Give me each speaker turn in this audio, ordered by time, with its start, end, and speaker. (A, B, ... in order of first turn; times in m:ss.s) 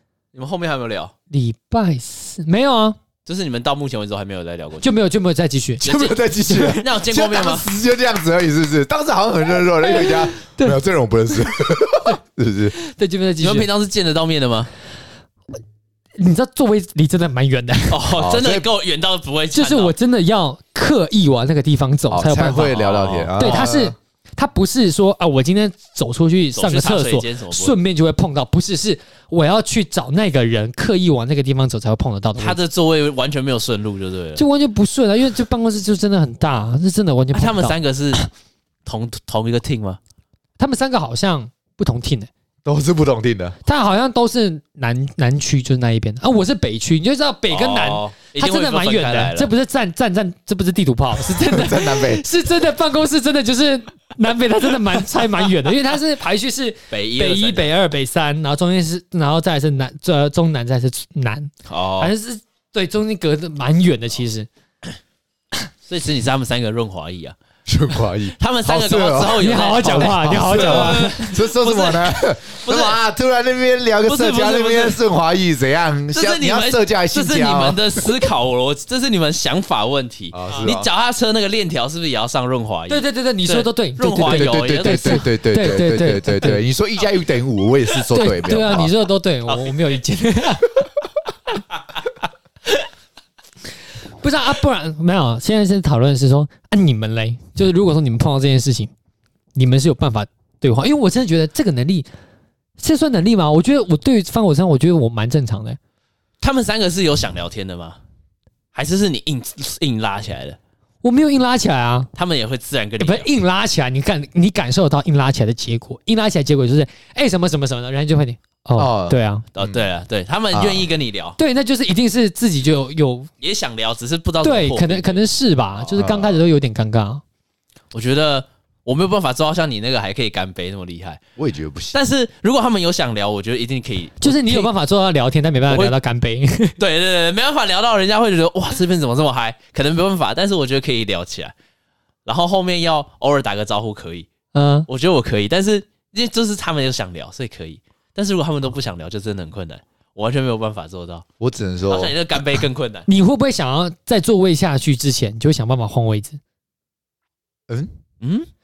0:00.3-0:01.1 A
0:01.3-0:03.0 B
0:03.2-0:04.9 A
0:04.8-0:05.8 B
0:05.8-0:12.7 C
0:05.8-0:07.7 A
0:09.8-0:10.8 B
0:12.8-0:13.7 B
0:13.4-0:14.7 A
0:16.2-0:18.0 B
0:17.9-0:19.9 A
0:18.2-0:18.6 C
0:19.5-0:22.8 B
0:22.1-0:23.9 C
0:22.6-0:23.7 A
0:23.4-0:32.6 B
0:26.5-0:27.8 A
0:32.4-0:34.4 A
0:34.4-0:38.3 B
0:37.3-0:38.2 A
0:38.8-0:40.0 A
0:40.6-0:42.3 B
0:42.6-0:43.6 C
0:43.6-1:04.5 B
0:47.5-0:49.5 A
0:51.4-0:52.2 C
0:56.9-0:57.7 A
1:01.6-1:02.1 A
1:05.9-1:07.3 A
1:07.7-1:18.2 C
1:08.4-1:13.0 A
1:09.4-1:11.3 B
1:14.0-1:15.0 A
1:16.1-1:25.2 A
1:20.3-1:20.9 C
1:22.9-1:26.6 B
1:24.2-1:28.9 C
1:28.1-1:30.7 B
1:29.5-1:29.7 A
1:34.2-1:38.9 B
1:39.5-1:42.1 B
1:42.8-1:45.8 B
1:46.4-1:48.0 A
1:48.7-1:50.6 A
1:51.0-1:52.1 B
1:52.1-1:53.3 A
1:53.0-1:59.4 B
1:58.8-1:59.8 C
1:59.5-2:01.4 A
2:00.5-2:00.9 C
2:01.4-2:03.3 B
2:03.4-2:05.2 A
2:04.4-2:07.2 B
2:06.0-2:06.4 C
2:07.9-2:11.2 A
2:11.4-2:12.0 C
2:11.9-2:14.7 A
2:14.2-2:16.7 B
2:15.7-2:15.9 A
2:16.8-2:21.5 A
2:22.2-2:24.3 A
2:24.5-2:24.9 B
2:24.9-2:31.2 A
2:31.4-2:32.1 C
2:31.9-2:33.1 A
2:33.1-2:36.4 B
2:38.2-2:38.5 A